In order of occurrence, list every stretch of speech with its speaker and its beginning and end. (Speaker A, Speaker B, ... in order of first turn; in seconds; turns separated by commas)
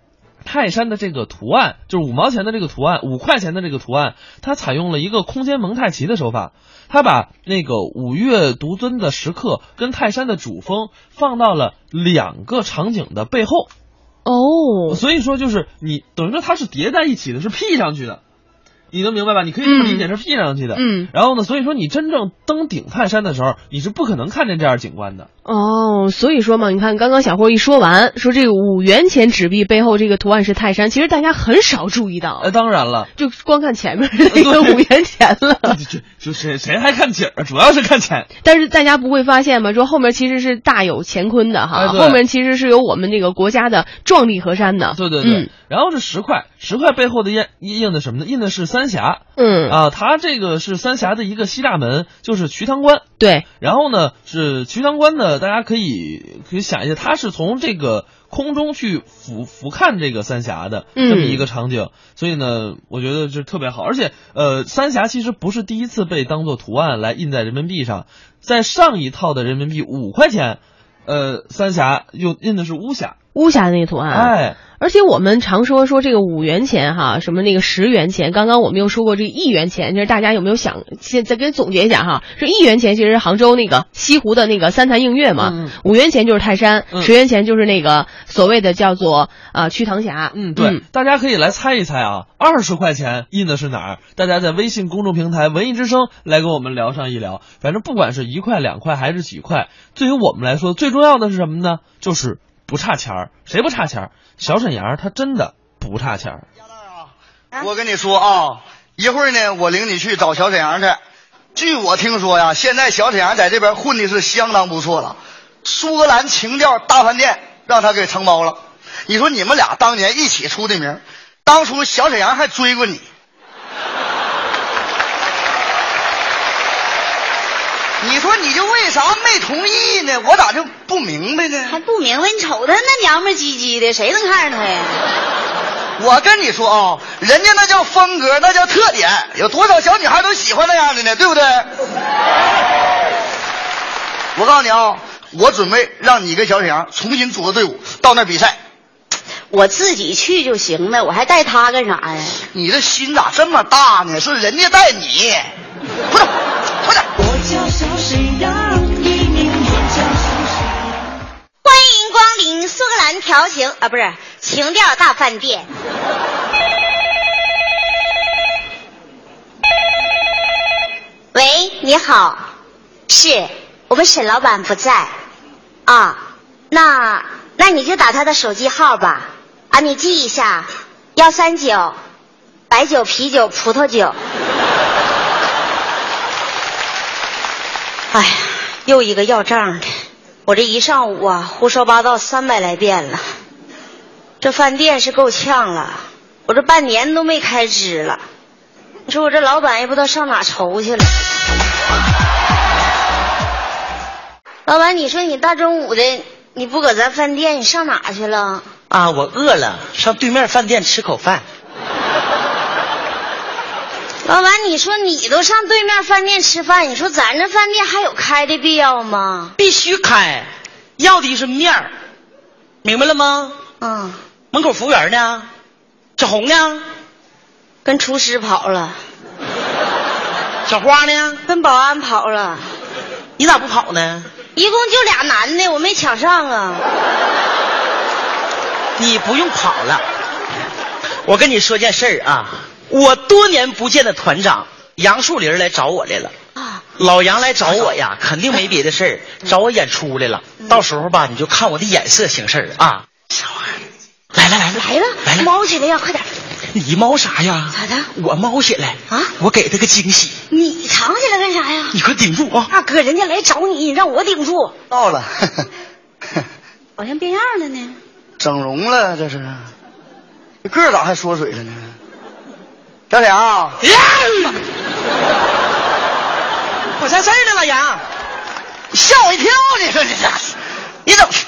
Speaker A: 0.4-13.7, Speaker B: 14.2-15.0, Speaker A: 14.9-18.2, Speaker A: 18.9-25.3, Speaker B: 19.6-20.1, Speaker B: 20.7-21.1, Speaker B: 25.4-32.5, Speaker A: 32.4-33.1, Speaker B: 33.1-35.8, Speaker A: 34.3-34.8, Speaker A: 35.6-38.3, Speaker B: 38.4-45.5, Speaker A: 41.7-42.2, Speaker A: 44.9-53.1, Speaker B: 49.4-49.8, Speaker B: 53.2-53.4, Speaker A: 53.6-73.2, Speaker B: 61.0-61.5, Speaker B: 73.3-90.8, Speaker A: 74.1-74.6, Speaker A: 85.4-85.8, Speaker A: 90.3-106.4, Speaker C: 106.7-107.0, Speaker C: 107.6-111.0, Speaker C: 111.5-123.0, Speaker C: 128.0-131.8, Speaker D: 131.7-135.0, Speaker C: 136.0-141.7, Speaker C: 144.3-148.6, Speaker D: 149.5-152.4, Speaker C: 152.5-155.4, Speaker D: 157.5-158.9, Speaker D: 161.6-165.7, Speaker D: 171.3-172.4, Speaker D: 173.1-175.1, Speaker D: 175.8-176.2, Speaker D: 176.7-181.9, Speaker D: 182.7-184.2, Speaker D: 188.1-189.9, Speaker D: 190.4-193.2, Speaker D: 194.4-198.2, Speaker D: 199.1-201.1, Speaker D: 204.7-208.6, Speaker E: 208.9-211.4, Speaker D: 214.2-219.5, Speaker E: 219.6-221.9, Speaker E: 222.8-223.6, Speaker D: 223.8-224.2, Speaker E: 224.5-225.5, Speaker E: 226.2-226.8, Speaker D: 227.8-229.0, Speaker E: 230.7-231.4, Speaker D: 231.4-232.7, Speaker E: 233.4-234.3, Speaker D: 234.5-236.8, Speaker E: 239.0-240.0, Speaker E: 241.2-246.3, Speaker D: 246.6-246.8, Speaker E: 247.0-253.0, Speaker D: 253.3-253.8, Speaker E: 254.3-255.5, Speaker D: 254.7-256.3, Speaker E: 256.7-260.3, Speaker D: 257.7-258.1, Speaker D: 260.5-261.9, Speaker E: 261.9-262.7, Speaker D: 262.7-264.7, Speaker C: 264.9-265.6, Speaker D: 267.0-268.0, Speaker C: 268.4-269.7, Speaker C: 270.6-271.9, Speaker C: 273.1-273.8, Speaker E: 273.9-274.6, Speaker E: 277.0-278.0, Speaker C: 278.9-281.2